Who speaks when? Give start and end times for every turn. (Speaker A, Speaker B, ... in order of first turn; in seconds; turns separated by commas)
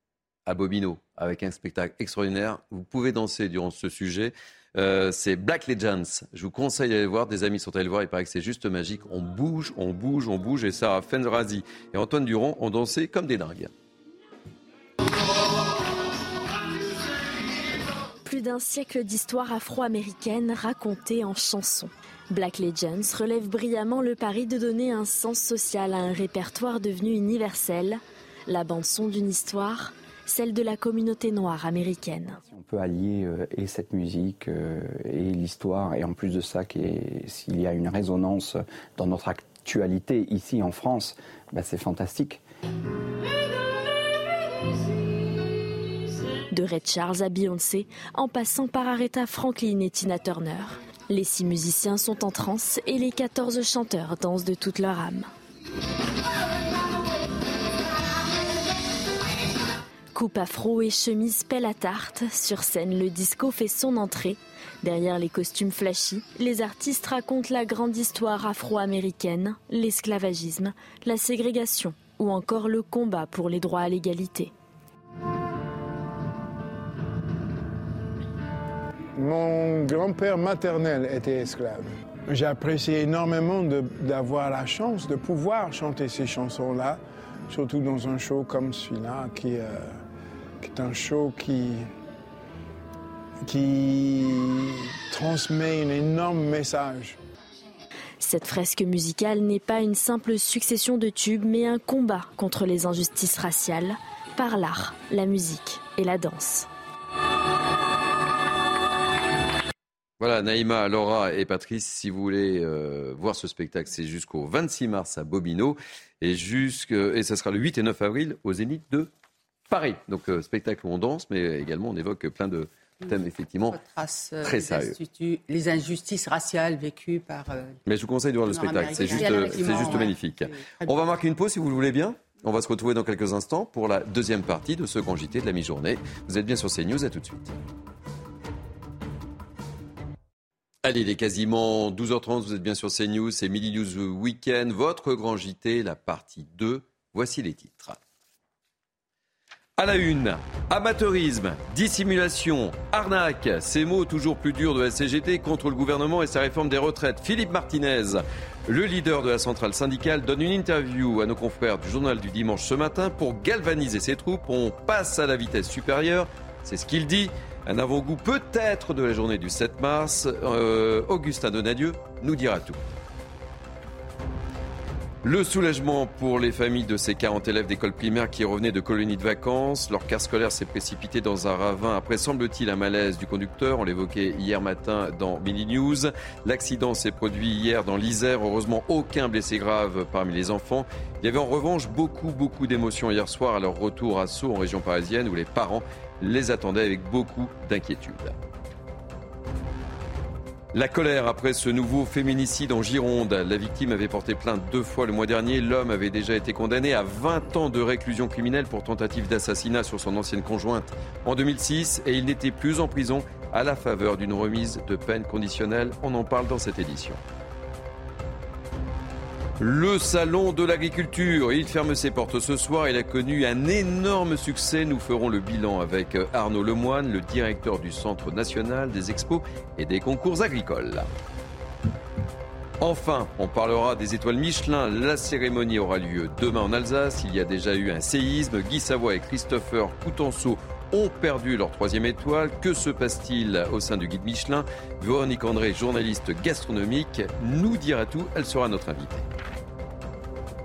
Speaker A: 0.5-13.7, Speaker B: 18.2-32.4, Speaker C: 32.5-42.4, Speaker B: 46.5-55.3, Speaker B: 60.1-74.5, Speaker D: 79.2-89.9, Speaker D: 90.6-91.9, Speaker D: 93.5-97.2, Speaker B: 98.2-106.7, Speaker A: 110.2-119.1, Speaker A: 119.7-123.8, Speaker E: 123.7-127.8, Speaker A: 124.4-125.0, Speaker A: 127.9-137.5, Speaker E: 128.5-130.9, Speaker A: 140.8-148.0, Speaker A: 149.8-172.8, Speaker A: 175.2-198.4, Speaker A: 200.7-217.2, Speaker A: 219.6-231.1, Speaker A: 232.8-249.3